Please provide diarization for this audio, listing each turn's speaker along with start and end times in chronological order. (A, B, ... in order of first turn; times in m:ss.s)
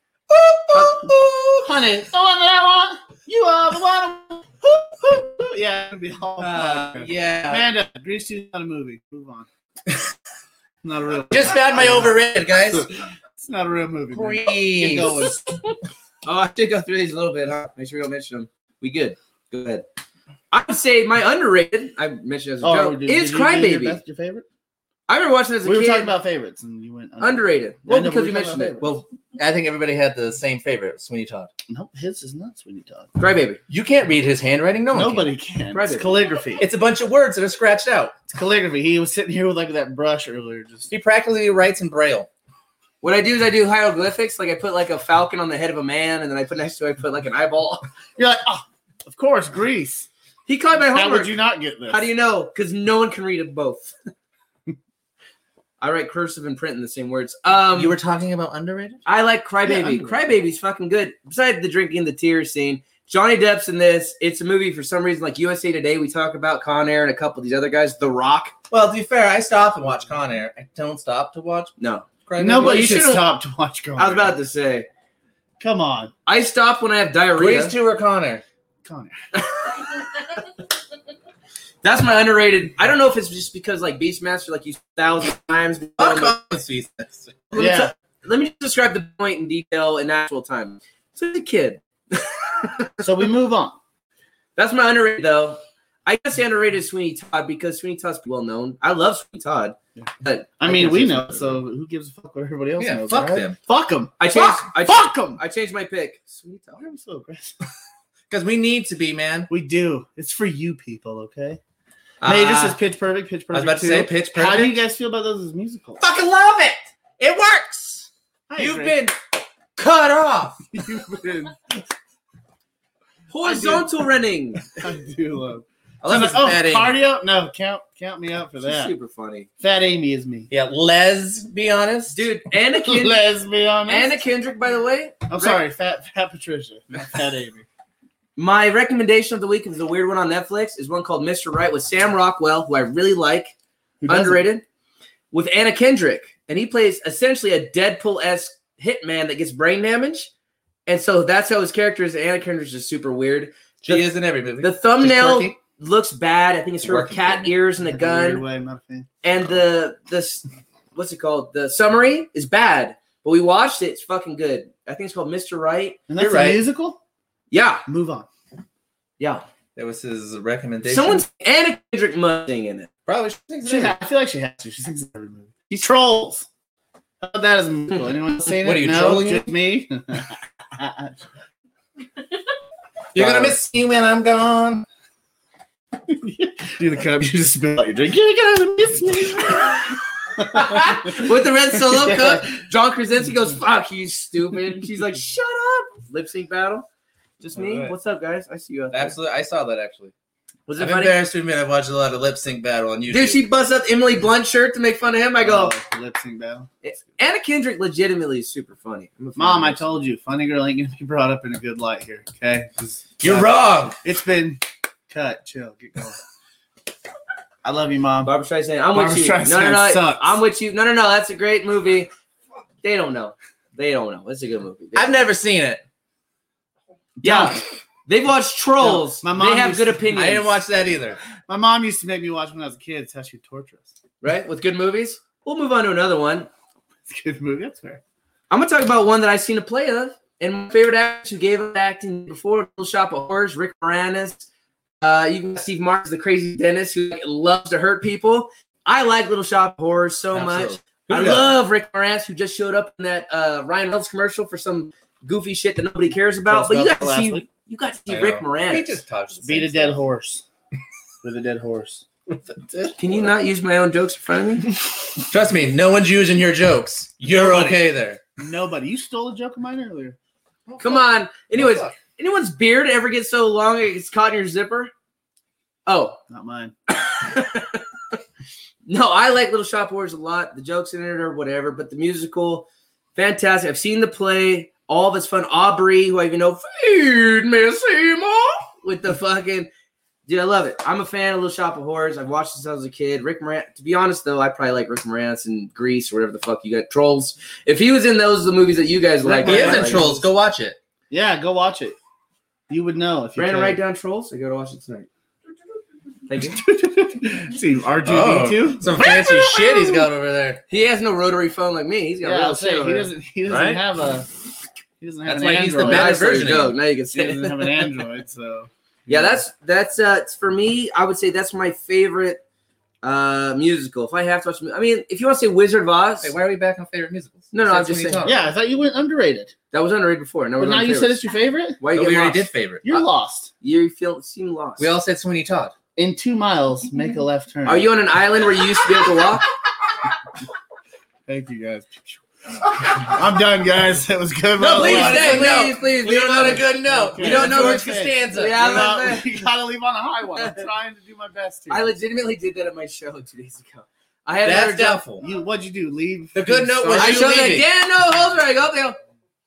0:00.3-0:01.7 A
0:01.6-0:09.5 B
0:06.4-0:07.7 A
0:10.8-0:12.2 B
0:11.3-0:12.9 A
0:12.7-0:15.5 B
0:14.1-0:15.3 A
0:16.3-0:19.8 C
0:20.5-0:24.0 C
0:22.6-0:24.4 B
0:25.1-0:26.1 C
0:25.6-0:28.9 B
0:27.2-0:28.8 C
0:28.8-0:31.5 A
0:31.7-0:33.1 B
0:33.2-0:33.6 C
0:33.7-0:35.3 A
0:34.9-0:36.7 B
0:35.7-0:36.2 C
0:36.6-0:38.2 A
0:38.3-0:40.9 B
0:40.9-0:42.3 A
0:43.0-0:47.8 C
0:48.2-0:50.1 B
0:50.5-0:51.3 C
0:50.9-0:52.1 B
0:51.9-0:53.9 C
0:55.8-0:58.0 C
0:57.7-0:59.0 A
0:59.1-1:08.6 C
0:59.8-1:00.1 B
1:08.7-1:11.7 A
1:11.8-1:13.3 C
1:12.3-1:13.1 A
1:12.4-1:14.4 B
1:14.0-1:14.9 C
1:15.6-1:16.1 B
1:16.3-1:17.8 C
1:17.3-1:18.4 A
1:18.8-1:19.2 B
1:19.4-1:19.8 C
1:21.8-1:26.4 C
1:26.0-1:27.6 A
1:27.5-1:33.0 C
1:27.6-1:27.9 B
1:33.0-1:33.8 B
1:34.6-1:41.6 C
1:40.6-1:45.4 B
1:42.8-1:43.6 A
1:44.2-1:46.3 C
1:46.4-1:47.6 B
1:48.3-1:49.5 A
1:49.5-1:51.6 B
1:52.2-1:52.8 A
1:52.2-1:56.0 B
1:53.5-1:54.8 A
1:56.0-1:59.2 A
1:58.5-1:59.0 B
1:59.8-2:00.7 A
2:00.7-2:01.6 B
2:03.3-2:04.6 C
2:03.4-2:03.9 B
2:04.7-2:08.9 B
2:06.0-2:07.0 A
2:08.6-2:09.5 C
2:09.6-2:10.5 B
2:10.5-2:12.2 A
2:12.1-2:13.2 C
2:12.7-2:14.2 B
2:13.9-2:15.6 C
2:15.3-2:17.6 B
2:18.4-2:23.5 C
2:24.0-2:24.4 B
2:24.1-2:24.6 C
2:25.3-2:30.3 C
2:30.9-2:34.1 C
2:33.8-2:35.6 A
2:34.6-2:38.4 C
2:36.8-2:37.5 A
2:37.8-2:39.1 B
2:39.2-2:46.0 C
2:46.1-2:47.0 B
2:46.2-2:46.6 A
2:47.5-2:47.8 C
2:47.9-2:48.3 B
2:49.2-2:49.5 C
2:49.8-2:51.2 A
2:50.9-2:52.9 C
2:53.1-2:54.0 A
2:53.6-2:56.5 B
2:57.2-3:01.2 B
2:58.5-2:59.5 A
3:03.2-3:04.9 A
3:03.2-3:03.6 B
3:06.1-3:12.5 B
3:10.5-3:16.9 C
3:17.4-3:19.2 C
3:17.5-3:17.9 A
3:18.9-3:20.1 A
3:20.7-3:21.2 C
3:20.8-3:23.4 A
3:23.1-3:25.8 C
3:25.4-3:26.7 B
3:26.8-3:30.0 C
3:29.4-3:36.2 B
3:33.2-3:34.0 A
3:37.6-3:38.3 B
3:38.2-3:42.1 C
3:38.9-3:40.4 B
3:42.8-3:45.2 C
3:45.0-3:45.8 A
3:47.2-3:47.6 B
3:47.2-3:50.5 C
3:48.8-3:50.1 B
3:50.1-3:51.2 A
3:51.5-3:53.9 B
3:54.2-3:56.5 C
3:57.1-3:58.0 B
3:58.5-4:04.5 C
4:05.0-4:19.0 C
4:10.3-4:11.5 A
4:16.5-4:17.5 B
4:18.1-4:20.0 A
4:19.4-4:20.4 B
4:21.2-4:22.0 B
4:22.3-4:23.0 A
4:23.0-4:24.7 C
4:25.3-4:28.2 A
4:27.4-4:27.8 B
4:28.4-4:30.2 B
4:30.7-4:32.0 A
4:30.8-4:34.9 C
4:35.9-4:36.2 C
4:36.3-4:36.7 B
4:36.9-4:37.8 C
4:38.9-4:49.7 C
4:50.3-5:00.1 C
4:59.2-5:00.2 B
4:59.4-5:00.8 A
5:01.1-5:02.0 B
5:02.7-5:03.8 B
5:03.4-5:05.1 C
5:06.3-5:06.6 C
5:06.4-5:09.1 B
5:08.0-5:10.6 A
5:09.0-5:10.0 C
5:10.7-5:13.8 C
5:12.2-5:14.3 B
5:15.0-5:16.3 B
5:15.2-5:16.7 A
5:15.8-5:17.9 C
5:17.1-5:19.4 B
5:19.1-5:22.4 C
5:23.0-5:26.4 C
5:26.2-5:28.5 A
5:27.5-5:28.3 C
5:28.2-5:29.5 B
5:29.7-5:31.2 C
5:30.6-5:31.8 B
5:31.8-5:32.4 C
5:31.9-5:33.0 A
5:32.8-5:33.5 B
5:33.6-5:34.9 C
5:34.8-5:35.7 A
5:36.0-5:37.9 B
5:37.6-5:39.5 C
5:41.3-5:45.8 B
5:44.6-5:48.6 A
5:44.6-5:49.3 C
5:46.4-5:51.9 B
5:50.4-5:50.6 C
5:51.7-5:55.0 C
5:54.4-5:55.2 A
5:55.2-5:57.4 B
5:56.4-5:57.7 A
5:57.0-5:59.0 C